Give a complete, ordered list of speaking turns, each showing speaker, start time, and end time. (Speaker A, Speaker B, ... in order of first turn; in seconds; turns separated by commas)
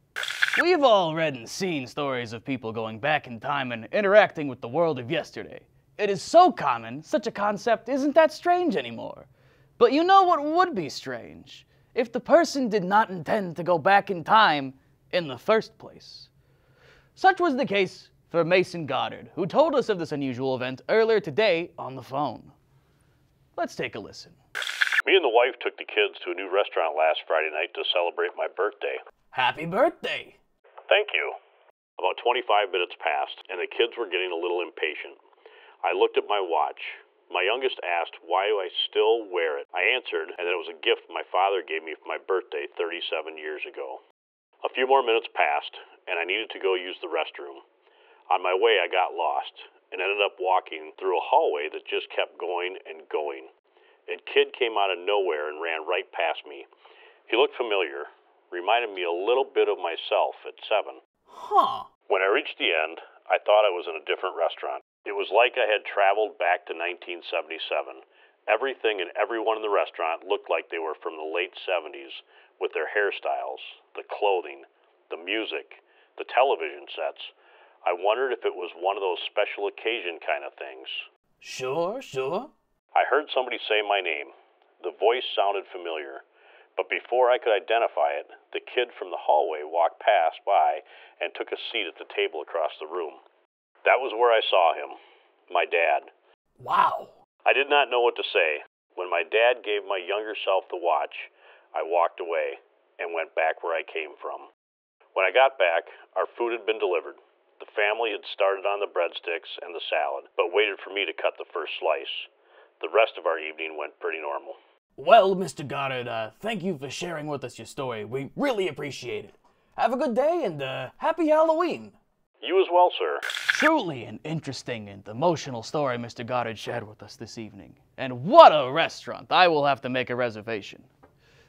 Speaker A: 0.6-16.3, Speaker A: 17.1-22.5, Speaker A: 23.6-24.4, Speaker B: 25.0-29.0, Speaker A: 29.3-30.4, Speaker B: 30.9-31.3, Speaker B: 32.0-35.2, Speaker B: 35.8-44.0, Speaker B: 44.6-47.6, Speaker B: 48.3-53.5, Speaker B: 54.1-56.7, Speaker B: 57.3-61.0, Speaker A: 61.3-61.9, Speaker B: 62.1-77.3, Speaker B: 77.8-81.1, Speaker A: 81.4-82.5, Speaker B: 82.9-86.2, Speaker B: 86.8-93.2, Speaker B: 93.8-95.0, Speaker B: 95.5-96.1, Speaker A: 96.6-97.1, Speaker B: 97.4-104.5, Speaker B: 105.1-114.5, Speaker A: 115.0-122.0, Speaker B: 122.4-123.2, Speaker A: 123.5-130.9